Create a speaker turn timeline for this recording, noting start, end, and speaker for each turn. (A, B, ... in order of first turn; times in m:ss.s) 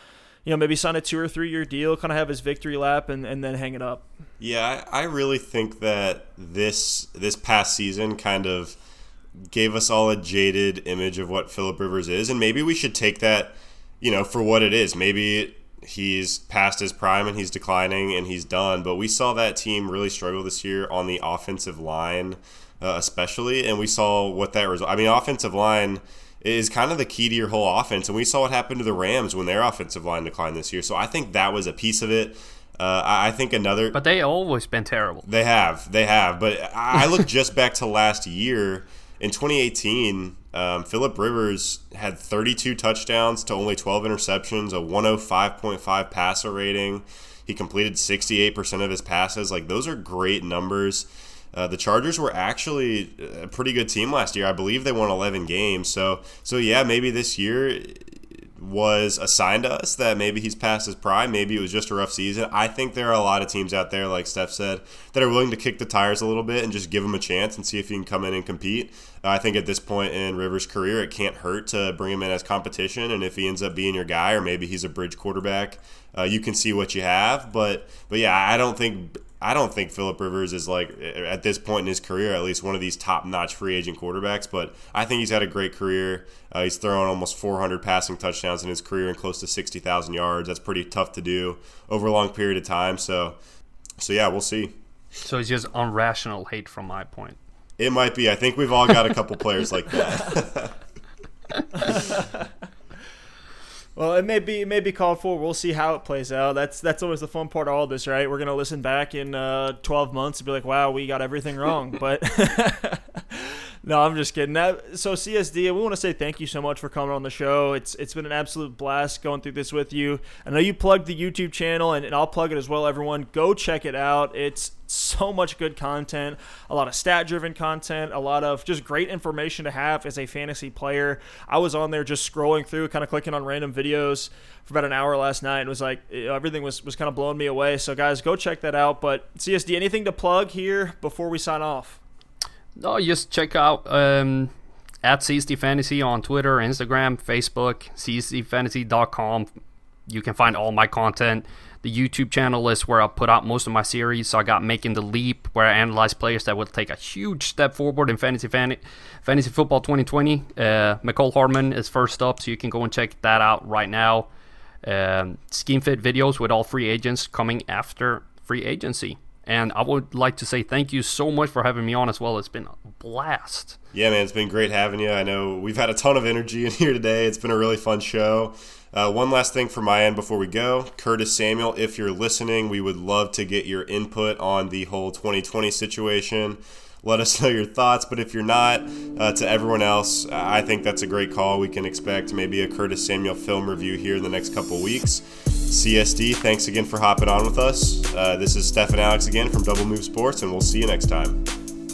0:00.4-0:04.1 A
0:04.4-0:08.8 B
0:09.5-0:34.0 B
0:33.9-0:35.2 C
0:35.2-1:33.4 B
1:34.0-1:34.7 B
1:35.2-1:37.4 C
1:37.8-1:40.7 B
1:41.8-1:42.4 A
1:44.0-2:22.0 A
2:22.8-2:24.5 C
2:25.0-2:29.5 C
2:30.1-2:44.3 C
2:44.8-2:53.8 C
2:53.9-3:21.4 B